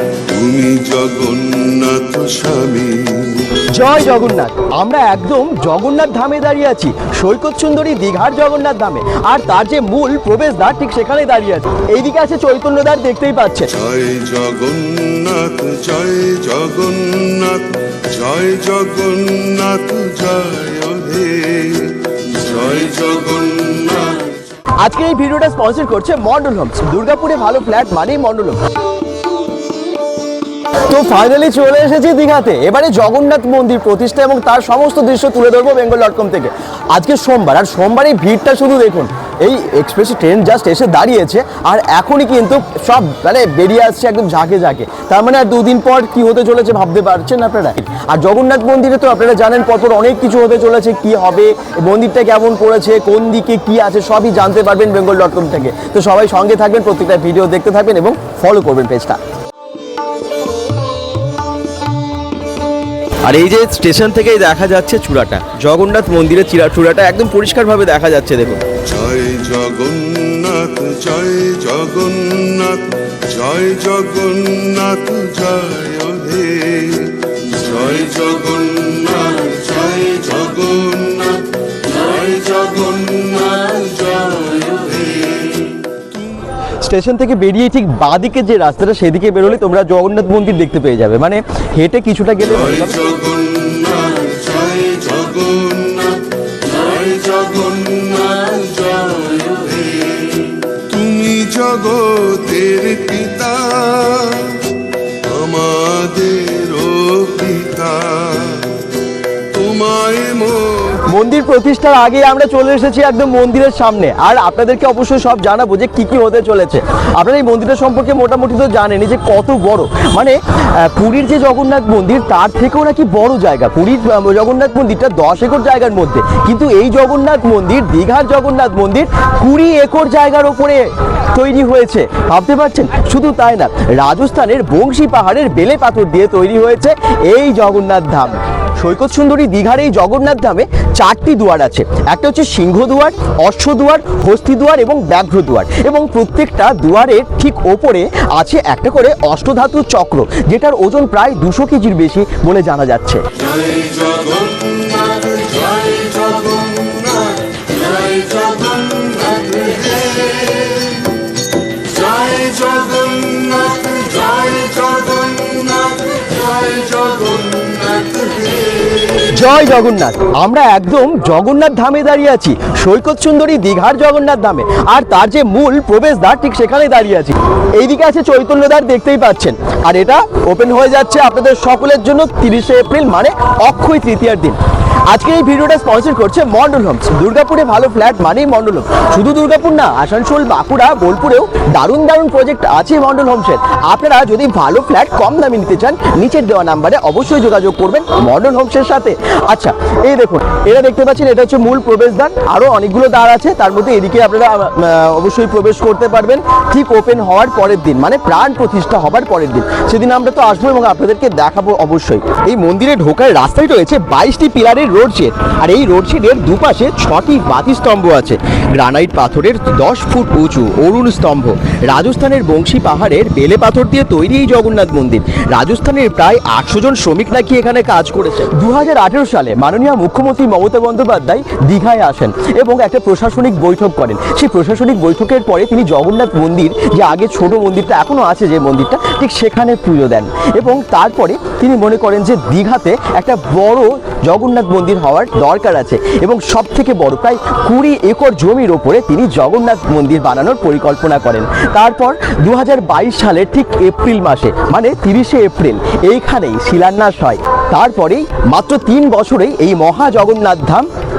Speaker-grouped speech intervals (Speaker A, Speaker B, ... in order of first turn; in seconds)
Speaker A: 0.3-3.7, 13.7-24.4, 68.8-86.4, 92.6-108.8, 109.5-111.0, 153.4-160.9, 161.9-168.6
Speaker B: 3.7-13.7, 24.8-28.6, 30.9-59.2, 63.2-68.6, 86.8-93.0, 111.1-153.2, 169.2-260.9